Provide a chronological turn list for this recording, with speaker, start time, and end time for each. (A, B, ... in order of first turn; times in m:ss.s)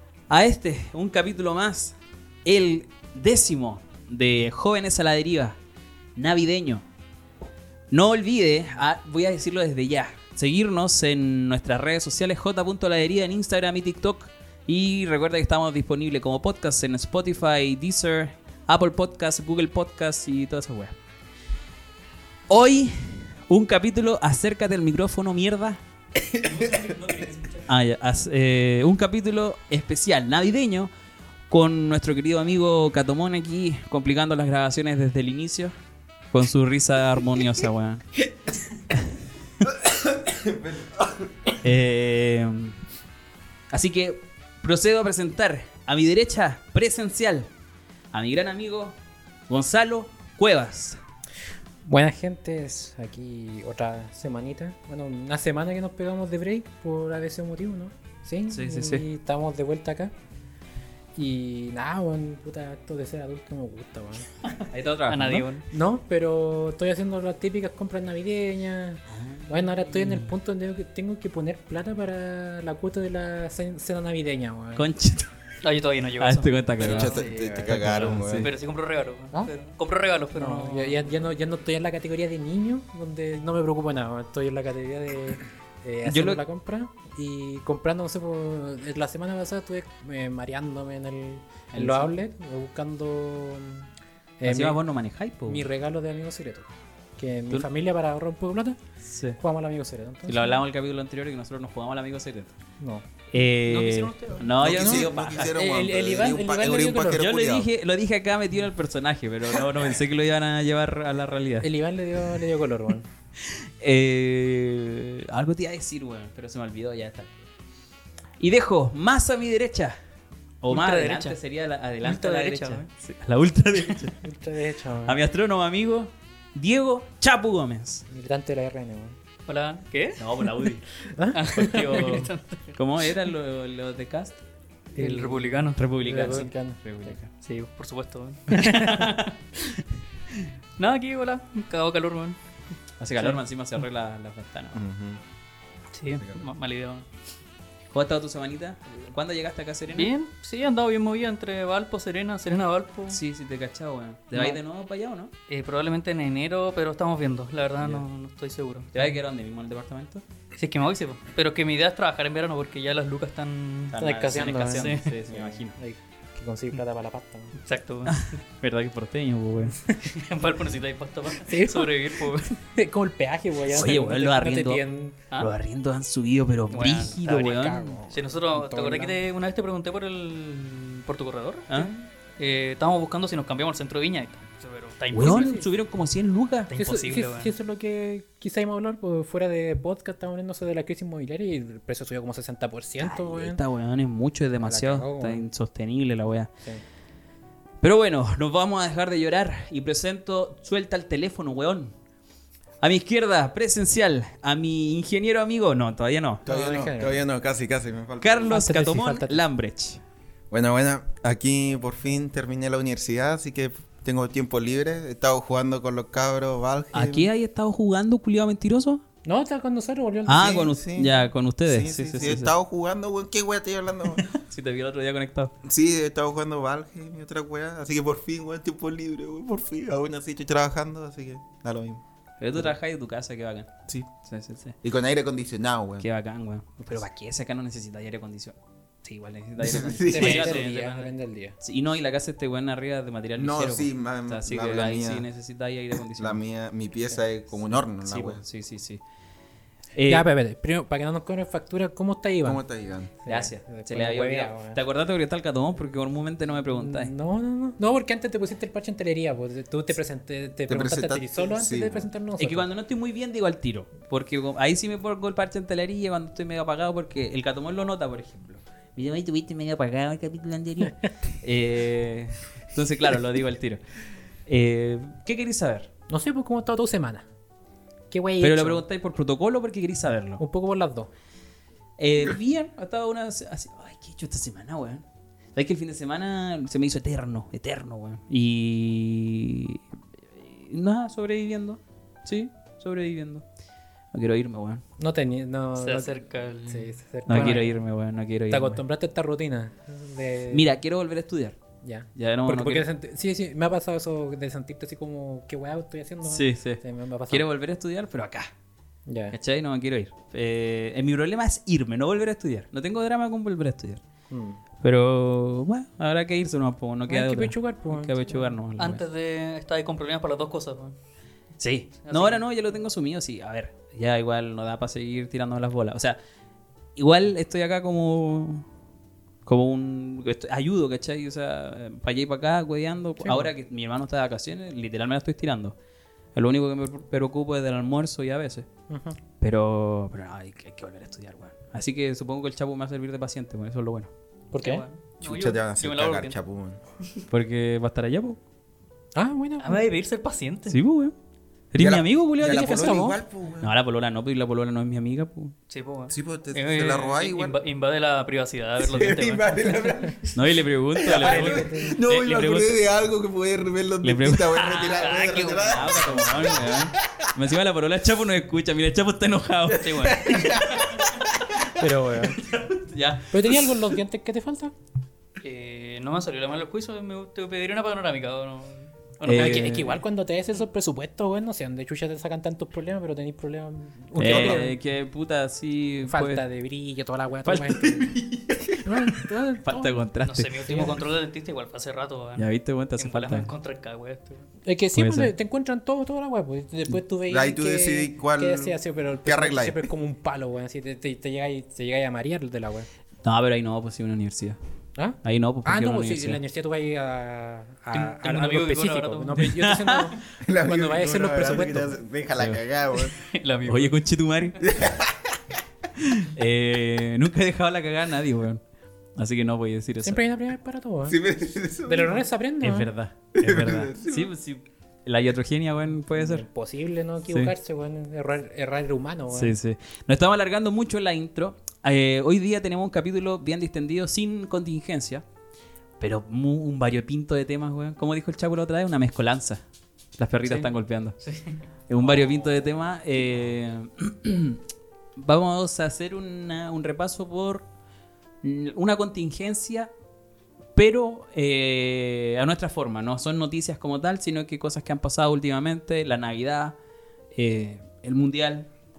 0:00.3-0:05.6 A
0:06.2-0:06.8 A
0:07.9-0:21.0 A
0:22.5-0:25.8 A
0:26.4-0:26.8 B
0:26.4-0:27.7 C
0:27.7-0:30.9 A
0:31.5-0:35.7 A
0:36.3-0:38.0 A
0:39.6-0:41.5 B
0:41.6-0:42.8 A
0:43.7-0:47.5 A
0:48.1-0:49.0 A
0:49.5-0:51.0 A
0:51.8-1:00.1 D
0:58.5-0:59.0 A
1:01.1-1:04.3 D
1:04.7-1:05.5 A
1:05.1-1:05.6 C
1:05.7-1:14.8 D
1:09.1-1:10.3 A
1:14.7-1:15.3 A
1:15.6-1:17.2 C
1:16.2-1:18.5 A
1:16.8-1:18.5 B
1:17.0-1:18.2 D
1:18.4-1:21.1 C
1:20.3-1:33.9 D
1:26.0-1:26.4 A
1:31.7-1:32.1 A
1:34.4-1:34.8 D
1:34.4-1:35.6 A
1:35.4-1:38.8 D
1:39.0-1:39.4 A
1:39.4-1:40.6 D
1:40.3-1:42.6 A
1:42.8-1:43.0 D
1:43.3-1:45.6 A
1:43.7-1:44.4 C
1:44.4-1:47.7 B
1:44.6-1:47.2 D
1:47.0-1:51.7 A
1:51.6-1:53.1 D
1:53.4-1:57.4 A
1:58.4-2:00.0 A
2:00.6-2:04.2 A
2:00.7-2:01.4 C
2:02.0-2:02.9 C
2:04.2-2:05.2 D
2:05.0-2:08.0 A
2:08.1-2:09.1 D
2:09.5-2:10.5 C
2:10.2-2:10.8 A
2:11.0-2:12.3 D
2:11.3-2:13.1 C
2:11.5-2:14.4 A
2:15.0-2:17.1 D
2:15.0-2:16.5 C
2:15.8-2:17.3 A
2:17.4-2:19.8 C
2:18.6-2:19.0 A
2:20.8-2:22.4 C
2:23.0-2:24.8 A
2:24.7-2:25.2 B
2:25.9-2:27.0 C
2:26.2-2:26.4 B
2:27.9-2:30.1 A
2:29.9-2:33.2 C
2:33.1-2:35.3 A
2:34.3-2:34.6 C
2:35.5-2:39.0 C
2:37.8-2:38.0 A
2:38.9-2:40.2 A
2:40.6-2:45.1 C
2:43.9-2:45.8 A
2:44.0-2:47.5 D
2:47.6-2:48.3 C
2:48.1-2:49.8 A
2:50.0-2:52.5 C
2:51.4-2:55.2 D
2:53.7-2:57.9 A
2:56.7-3:05.6 C
2:57.2-2:59.2 D
3:05.1-3:06.7 A
3:05.2-3:05.7 D
3:06.7-3:07.5 C
3:06.8-3:13.6 D
3:13.0-3:16.5 A
3:14.6-3:15.4 D
3:17.8-3:21.9 A
3:22.8-3:26.4 A
3:26.4-3:28.6 B
3:26.4-3:27.2 D
3:28.2-3:30.0 A
3:28.5-3:29.4 D
3:30.5-3:37.3 B
3:36.9-3:39.0 A
3:39.2-3:40.7 D
3:40.2-3:42.5 A
3:40.4-3:44.3 B
3:44.2-3:45.5 A
3:45.6-3:52.0 B
3:52.4-3:54.8 A
3:54.8-3:56.0 B
3:56.0-4:00.7 A
3:59.6-4:00.5 B
4:00.1-4:01.6 D
4:00.1-4:01.1 C
4:01.6-4:06.4 A
4:03.4-4:05.2 B
4:06.2-4:08.4 B
4:08.0-4:09.0 A
4:09.9-4:10.3 A
4:10.0-4:12.6 D
4:12.4-4:13.1 B
4:13.2-4:14.8 D
4:13.2-4:17.1 A
4:16.7-4:22.7 D
4:20.7-4:22.1 B
4:22.4-4:33.8 A
4:34.5-4:35.9 A
4:36.1-4:37.2 D
4:38.1-4:38.8 D
4:38.4-4:40.4 A
4:40.4-4:41.1 D
4:42.0-4:53.4 A
4:54.1-4:54.8 A
4:55.0-4:57.7 D
4:55.8-4:57.6 C
4:57.3-4:58.8 A
4:58.5-5:00.7 D
5:00.5-5:01.6 A
5:01.8-5:07.5 D
5:02.1-5:02.8 A
5:06.2-5:08.5 A
5:09.0-5:09.3 D
5:09.3-5:14.0 A
5:14.3-5:14.6 D
5:14.8-5:19.0 A
5:17.1-5:18.5 D
5:18.8-5:21.0 C
5:21.6-5:26.2 A
5:22.0-5:22.4 C
5:27.0-5:28.7 A
5:29.4-5:35.8 A
5:33.2-5:33.5 D
5:36.3-5:38.7 A
5:38.9-5:39.2 D
5:39.4-5:44.1 A
5:44.5-5:44.8 D
5:44.6-5:46.4 C
5:45.2-5:46.8 B
5:47.3-5:48.4 A
5:49.1-5:49.8 D
5:49.6-5:50.8 C
5:50.7-5:51.1 A
5:51.7-5:53.1 A
5:51.8-5:53.7 B
5:52.4-5:53.2 D
5:53.6-5:55.5 A
5:55.7-5:59.5 C
5:56.1-5:57.6 B
5:58.8-6:07.2 B
6:00.3-6:02.8 A
6:01.2-6:02.0 D
6:04.0-6:10.1 A
6:04.6-6:06.1 C
6:09.7-6:11.4 B
6:09.7-6:11.2 C
6:11.8-6:12.4 D
6:12.2-6:13.8 A
6:13.3-6:14.7 D
6:15.4-6:20.0 C
6:19.2-6:19.9 A
6:19.3-6:24.8 D
6:24.1-6:26.4 A
6:26.0-6:28.2 D
6:27.4-6:31.0 A
6:28.8-6:29.9 D
6:30.2-6:34.4 C
6:30.6-6:31.0 D
6:32.4-6:33.5 A
6:34.6-6:42.9 D
6:34.9-6:35.3 A
6:37.3-6:39.8 B
6:43.2-6:44.6 A
6:45.0-6:52.0 D
6:45.2-6:46.4 A
6:47.9-6:49.6 C
6:49.4-6:50.2 A
6:50.4-6:53.1 B
6:53.1-6:54.0 C
6:53.7-6:54.6 A
6:54.6-6:55.3 B
6:56.0-6:58.6 A
6:59.2-7:00.2 A
7:00.0-7:01.2 D
7:01.0-7:02.2 B
7:01.9-7:02.9 D
7:02.6-7:06.4 A
7:03.3-7:04.3 B
7:06.1-7:09.6 D
7:07.3-7:07.5 A
7:09.3-7:15.2 A
7:16.0-7:19.6 A
7:20.2-7:21.2 A
7:20.4-7:22.4 C
7:21.9-7:24.6 A
7:25.2-7:27.7 A
7:28.4-7:29.9 A
7:30.8-7:36.8 A
7:37.3-7:38.7 A